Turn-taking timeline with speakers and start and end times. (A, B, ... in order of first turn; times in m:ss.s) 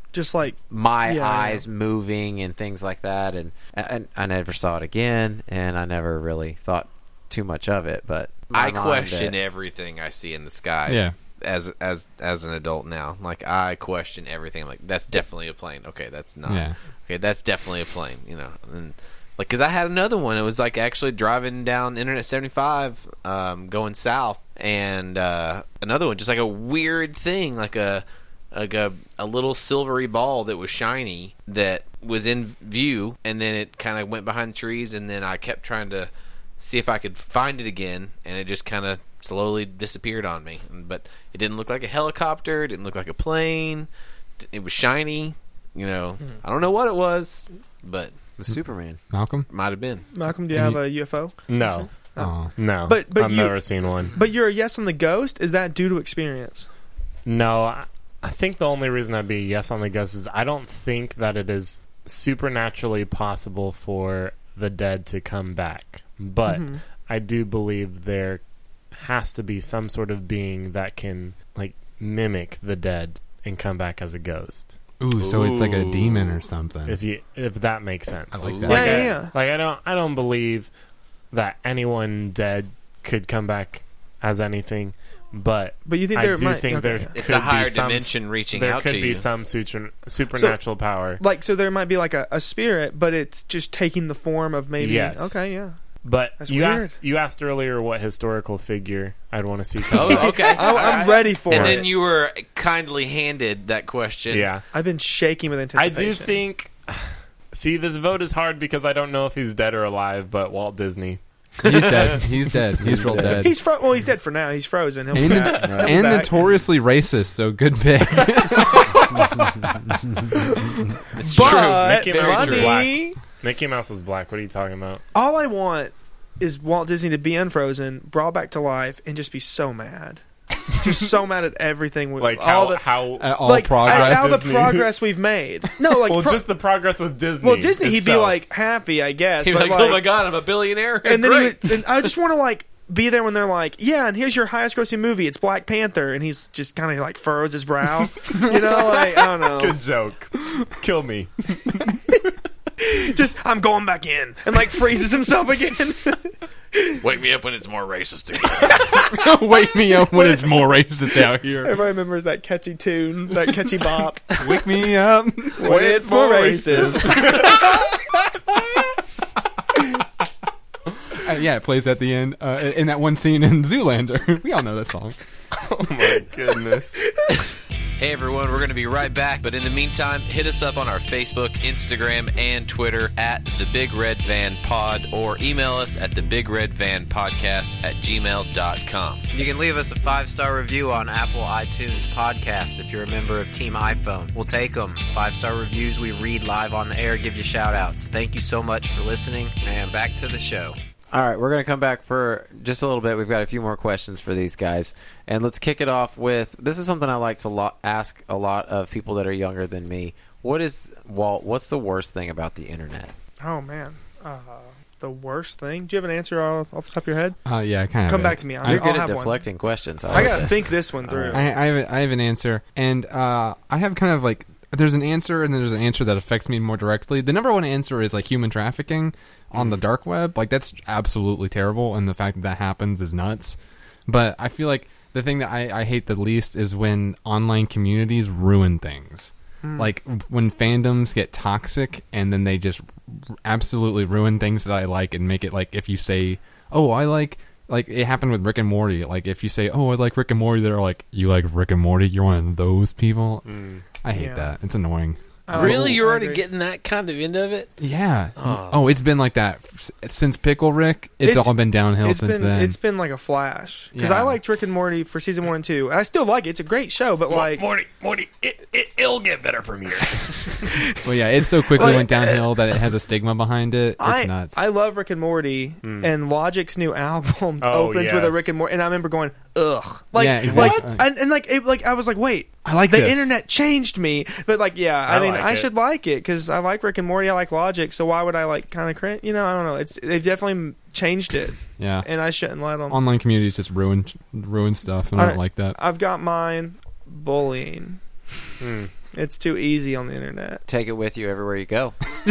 0:00.1-0:01.6 A
0:00.7-0:09.3 B
0:08.5-0:48.1 C
0:10.9-0:11.1 D
0:16.4-0:16.7 D
0:48.4-0:49.0 B
0:49.1-0:49.5 D
0:49.5-0:50.0 C
0:50.1-0:56.7 A
0:50.5-0:50.8 D
0:51.5-0:51.9 E
0:52.2-0:52.5 D
0:52.5-0:54.2 E
0:57.2-1:08.4 E
1:06.5-1:06.8 A
1:08.9-1:14.8 E
1:15.0-1:17.0 D
1:15.2-1:16.4 C
1:16.9-1:20.7 E
1:18.3-1:19.2 D
1:18.4-1:18.9 C
1:18.7-1:19.3 A
1:21.3-1:31.2 E
1:25.8-1:27.1 A
1:27.1-1:29.2 C
1:31.2-1:35.7 A
1:34.8-1:35.4 E
1:36.0-1:41.8 E
1:36.4-1:36.9 A
1:39.9-1:44.5 C
1:40.1-1:41.9 A
1:44.3-1:44.6 E
1:44.7-1:46.4 A
1:45.8-1:52.3 E
1:51.6-1:53.6 D
1:52.8-1:53.4 E
1:52.9-1:53.4 B
1:53.4-1:56.3 A
1:55.1-2:00.0 D
2:00.3-2:03.2 A
2:01.1-2:02.9 C
2:01.2-2:05.0 E
2:05.1-2:16.4 A
2:12.2-2:14.9 E
2:13.2-2:14.5 D
2:16.0-2:18.4 E
2:17.4-2:20.1 A
2:19.4-2:22.1 C
2:21.0-2:29.8 A
2:28.6-2:32.0 E
2:32.8-2:37.0 A
2:37.0-2:39.0 C
2:38.8-2:41.8 D
2:40.1-2:40.5 A
2:41.6-2:44.6 A
2:44.4-2:45.7 D
2:45.6-2:47.9 A
2:45.6-2:47.6 E
2:46.4-2:47.7 D
2:51.1-2:55.2 D
2:55.6-2:57.1 E
2:58.0-3:09.2 C
3:09.3-3:33.1 B
3:33.4-3:37.4 A
3:37.4-3:38.9 D
3:38.1-3:39.4 A
3:38.6-3:41.4 B
3:40.1-3:41.4 A
3:41.3-4:16.0 D
3:59.6-3:59.9 A
4:13.4-4:13.8 E
4:14.1-4:14.5 A
4:15.5-4:16.4 A
4:15.5-4:17.7 C
4:17.8-4:22.8 D
4:18.4-4:18.8 C
4:21.2-4:27.6 A
4:23.9-4:24.4 D
4:27.3-4:30.8 E
4:30.7-4:31.0 A
4:31.0-4:34.6 D
4:31.7-4:32.4 A
4:34.0-4:53.0 A
4:35.8-4:36.1 E
4:37.6-4:38.5 E
4:40.1-4:41.0 D
4:40.5-4:40.8 E
4:42.6-4:43.3 D
4:45.0-4:45.7 E
4:51.8-4:52.1 D
4:52.9-4:55.8 D
4:55.1-4:58.0 A
4:58.6-4:58.9 E
4:59.1-5:00.6 A
5:00.7-5:02.0 B